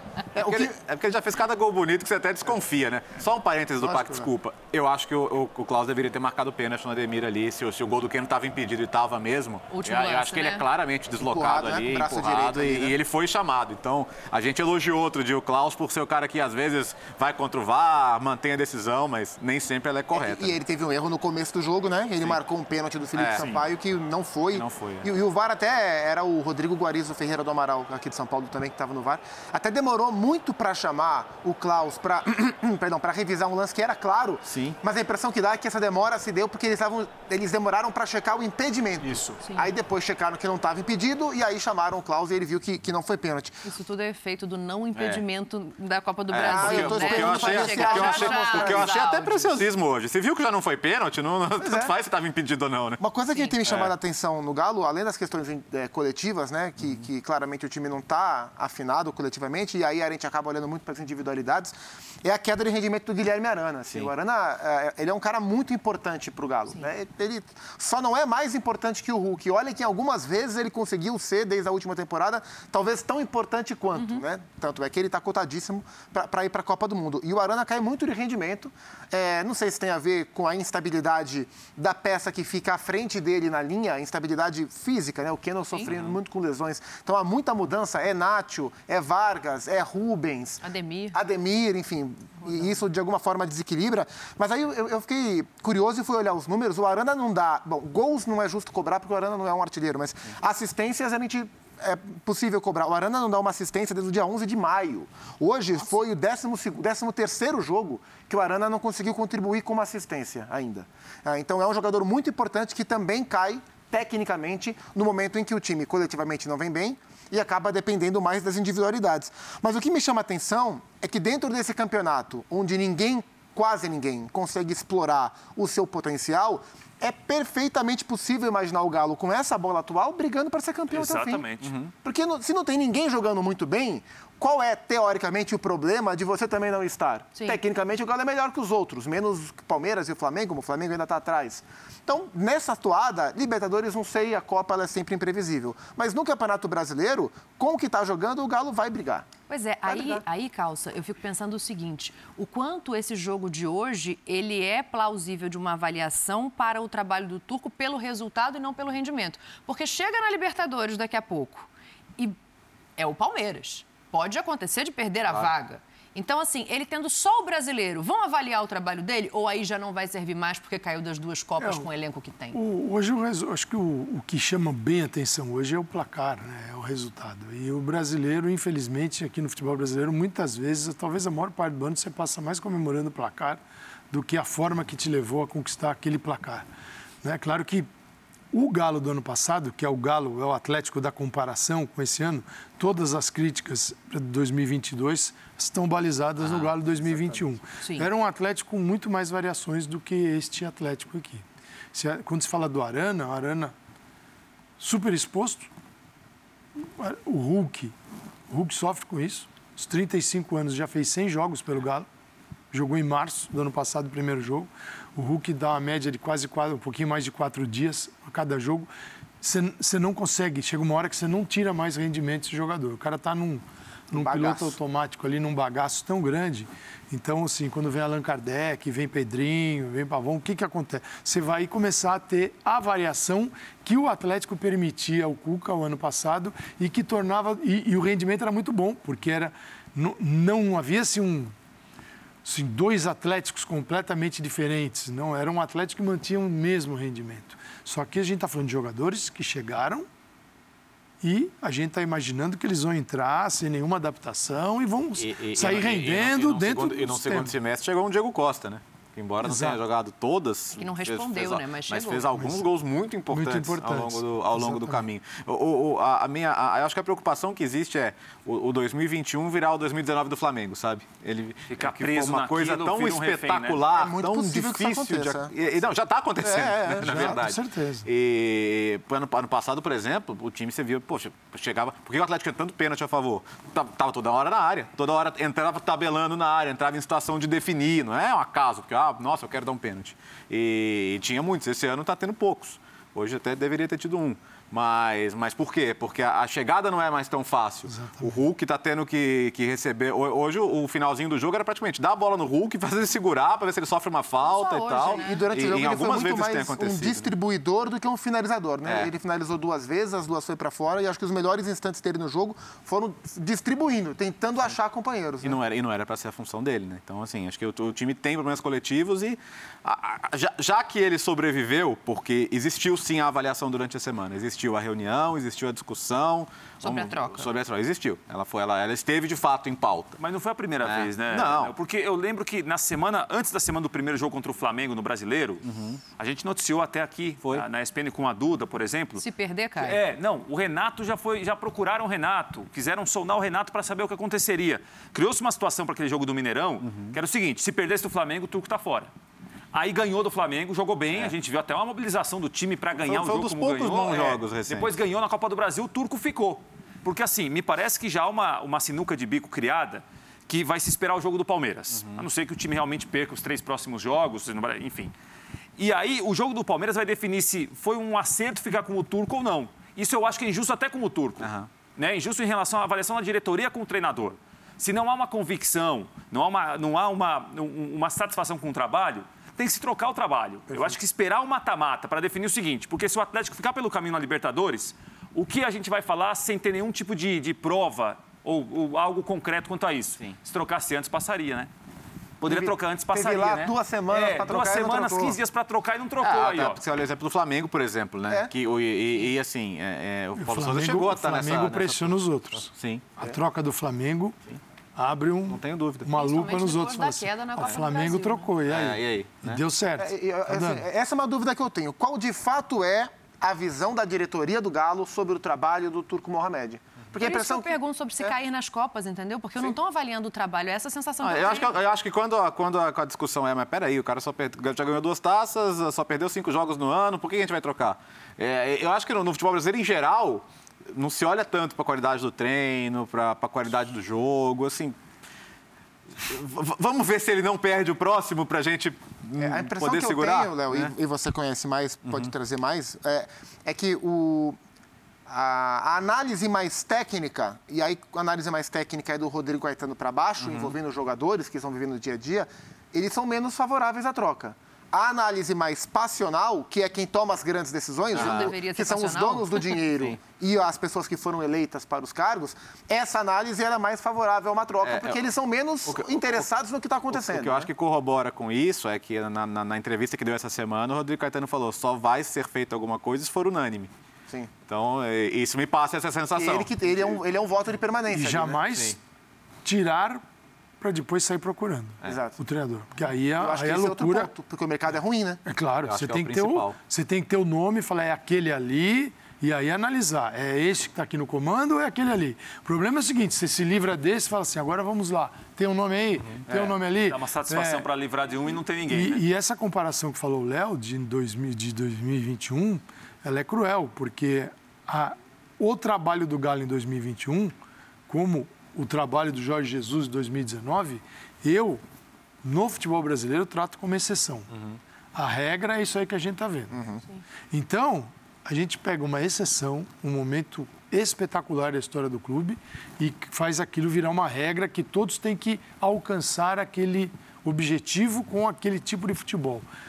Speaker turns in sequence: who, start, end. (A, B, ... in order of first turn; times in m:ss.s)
0:00.3-0:00.8 A
0:00.4-0:20.6 B
0:03.8-0:04.3 A
0:09.7-0:10.7 C
0:11.2-0:13.0 A
0:20.1-0:43.6 A
0:23.2-0:23.5 B
0:23.3-0:23.6 D
0:24.5-0:25.1 B
0:34.5-0:34.8 B
0:39.4-0:39.7 C
0:43.6-0:49.6 C
0:45.0-0:45.2 B
0:46.3-0:53.0 B
0:46.4-0:49.0 A
0:51.6-0:51.9 A
0:53.0-2:11.4 A
0:53.6-0:53.9 B
1:14.0-1:14.2 C
1:25.9-1:26.2 B
1:30.6-1:31.2 C
1:32.4-1:32.7 C
2:10.9-2:11.7 D
2:11.6-2:11.9 B
2:12.0-2:29.3 A
2:29.5-2:42.4 C
2:29.8-2:30.2 A
2:43.0-2:52.6 C
2:51.6-2:51.9 E
2:52.5-3:06.6 E
3:07.2-3:07.9 E
3:08.5-3:23.7 E
3:16.4-3:17.2 B
3:17.8-3:18.1 C
3:24.8-3:25.7 E
3:27.0-3:27.9 E
3:28.5-3:32.1 E
3:32.7-3:38.9 E
3:39.4-4:01.5 E
3:44.1-3:44.8 A
4:02.4-4:10.1 E
4:11.2-4:17.5 E
4:15.2-5:07.3 B
4:19.4-4:19.8 E
4:20.7-4:22.3 C
4:22.4-4:22.6 E
4:23.3-4:25.0 E
4:31.7-4:33.8 D
4:33.9-4:35.5 A
4:36.4-4:37.4 A
4:36.9-4:38.1 E
4:57.9-4:58.4 E
5:04.4-5:05.5 C
5:05.1-5:15.6 A
5:15.4-5:30.2 B
5:26.8-5:27.5 C
5:30.2-5:35.6 D
5:30.8-5:31.7 B
5:35.6-5:36.0 B
5:36.2-5:39.2 D
5:39.2-5:40.0 C
5:39.8-5:49.1 D
5:46.8-5:47.2 B
5:49.7-6:05.1 D
5:53.0-5:54.9 B
6:01.9-6:02.3 B
6:05.8-6:31.7 D
6:11.4-6:11.7 B
6:32.4-6:36.8 D
6:32.4-6:35.4 A
6:36.2-6:43.1 B
6:40.4-6:44.4 E
6:45.0-6:50.9 E
6:45.5-6:46.1 B
6:46.1-6:48.5 C
6:48.7-6:49.6 B
6:50.0-6:58.3 A
6:57.2-7:01.8 C
7:01.2-7:15.0 B
7:16.2-7:20.9 B
7:19.4-7:24.6 A
7:22.1-7:22.3 B
7:25.3-7:47.7 A
7:30.4-7:30.7 B
7:38.1-7:38.5 B
7:38.1-7:39.6 C
7:44.8-7:45.2 B
7:45.9-7:46.4 B
7:47.1-7:53.9 B
7:54.7-7:57.2 B
7:56.4-7:58.6 A
7:58.1-7:59.0 E
7:59.6-8:00.2 E
8:00.8-8:04.3 E
8:02.1-8:02.4 A
8:03.4-8:05.4 A
8:05.4-8:17.9 E
8:05.8-8:06.8 B
8:16.3-8:16.8 B
8:17.0-8:19.2 D
8:18.9-8:27.5 E
8:28.1-8:31.8 E
8:32.4-8:34.5 E
8:34.5-8:34.8 B
8:35.2-8:36.8 E
8:36.7-8:37.0 A
8:37.5-8:49.7 E